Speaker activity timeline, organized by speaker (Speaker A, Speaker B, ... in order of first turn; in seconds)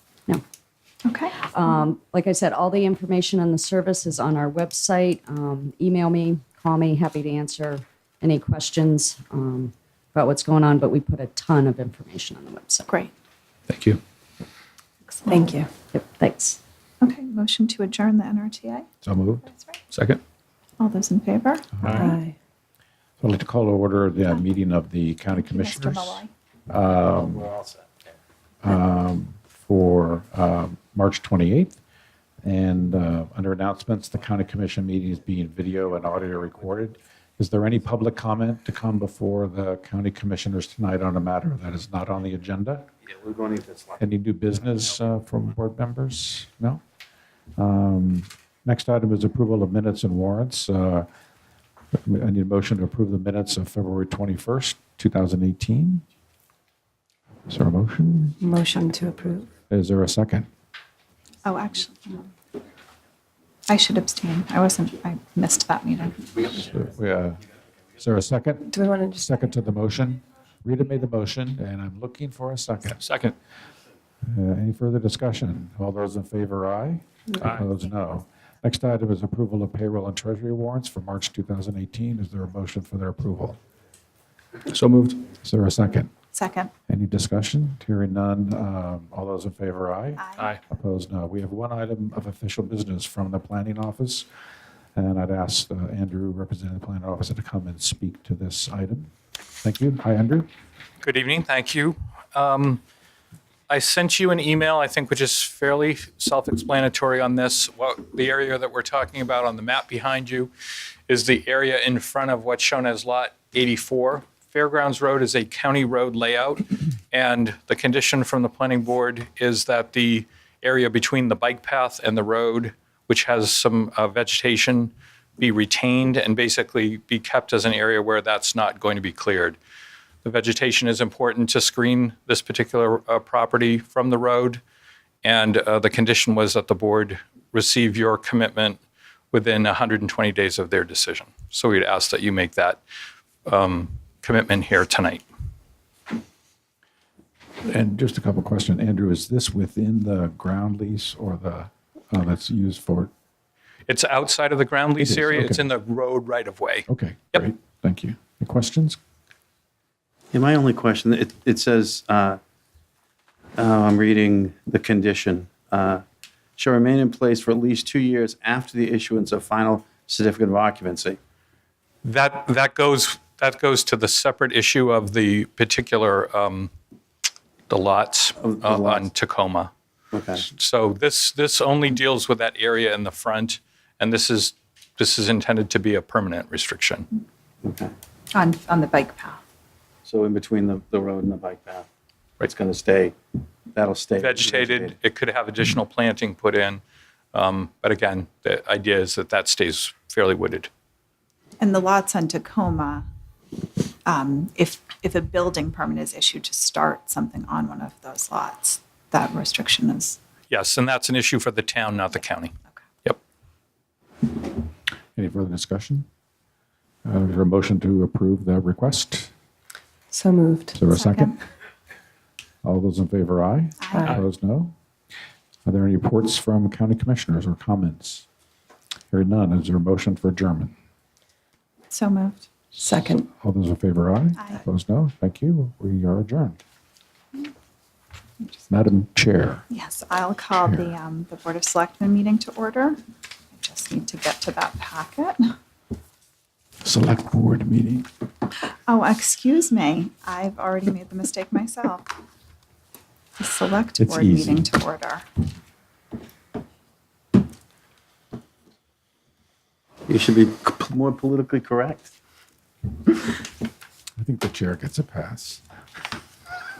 Speaker A: 1.1-1.4, 15.2-15.6, 17.0-18.9, 19.4-19.8, 20.8-21.7, 25.3-26.3, 61.4-62.2, 63.7-66.5, 86.3-86.7, 90.2-90.5, 188.3-189.4, 201.6-203.1, 204.1-210.2, 220.9-221.4, 223.8-224.2, 231.9-232.5, 234.4-234.6, 238.4-238.7, 239.7-243.0, 243.6-245.5, 248.9-252.1, 253.4-255.2
Speaker B: 1.6-12.9, 15.9-16.6
Speaker C: 13.7-14.0, 19.9-20.2, 73.0-73.3, 84.7-85.2, 101.0-102.8, 103.7-110.5, 111.1-129.6, 130.2-134.6, 135.2-138.8, 139.3-142.8, 143.5-145.2, 153.9-157.4, 172.0-176.7, 177.7-179.7, 180.4-187.1, 194.2-196.8, 197.3-200.7, 210.5-212.5
Speaker D: 15.3-15.7, 21.9-22.3, 58.4-59.5, 68.7-69.5, 220.1-220.8, 232.8-233.3
Speaker E: 19.0-19.4, 21.8-22.1, 23.2-27.5, 28.6-31.8, 32.4-42.9, 44.0-46.8, 47.6-51.1, 51.9-56.0, 57.5-58.4, 59.7-60.5, 66.5-67.4, 68.0-73.0, 74.2-83.6, 85.4-86.1, 86.9-94.3, 95.0-99.1, 99.6-100.5, 147.6-153.1, 155.0-155.7, 156.9-159.0, 215.2-216.1, 217.0-219.3, 220.8-221.3, 222.6-224.7, 225.7-228.2, 229.1-230.7, 233.3-236.6, 238.7-239.7, 246.8-248.1, 254.0-254.6, 264.2-265.6
Speaker F: 43.2-43.7, 160.3-162.4, 163.6-166.0, 166.6-171.2, 178.4-179.1, 180.1-180.5, 187.6-187.9, 190.0-191.9, 192.4-193.2, 193.7-195.0, 260.1-262.1